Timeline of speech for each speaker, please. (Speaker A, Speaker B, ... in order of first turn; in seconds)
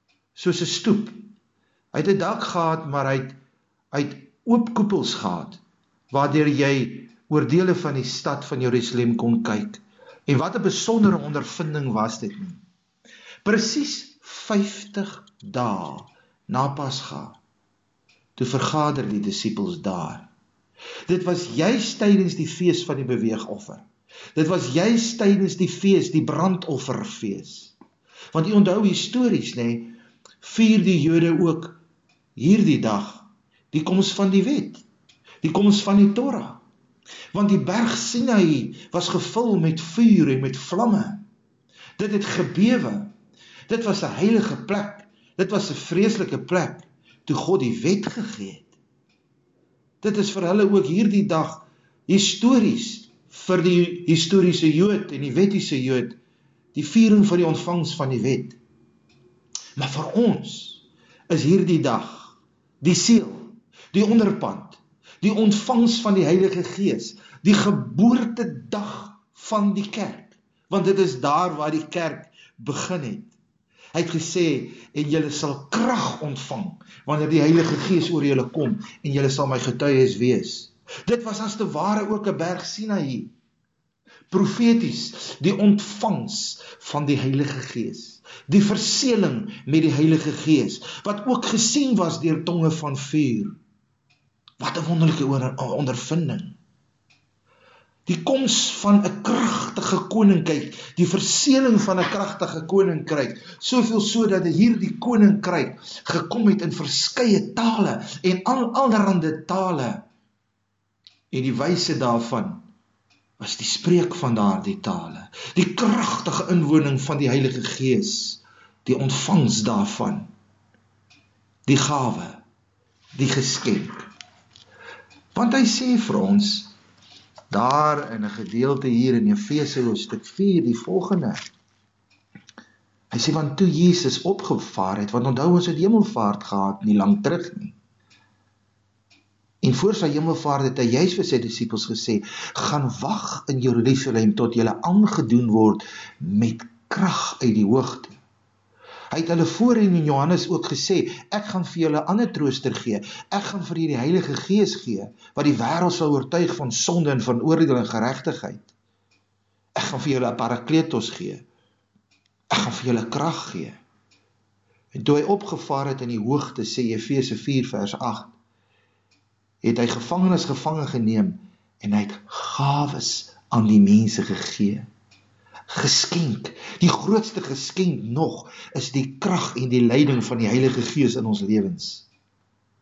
Speaker A: 0.3-1.3, 1.9-3.4, 3.9-12.6, 13.4-17.4, 18.4-20.3, 21.1-27.7, 28.3-31.8, 32.4-34.8, 35.4-36.6, 37.3-41.2, 42.0-43.1, 43.7-48.7, 50.0-56.2, 56.7-58.6, 59.8-73.3, 73.9-83.3, 84.3-93.5, 94.6-96.6, 98.1-110.0, 111.3-112.7, 113.4-120.3, 121.7-122.4, 123.2-124.0, 125.3-126.7, 127.5-131.4, 133.1-137.8, 139.6-148.2, 149.1-158.7, 159.8-161.4, 162.5-163.8, 164.9-168.3, 169.6-174.9, 175.7-182.1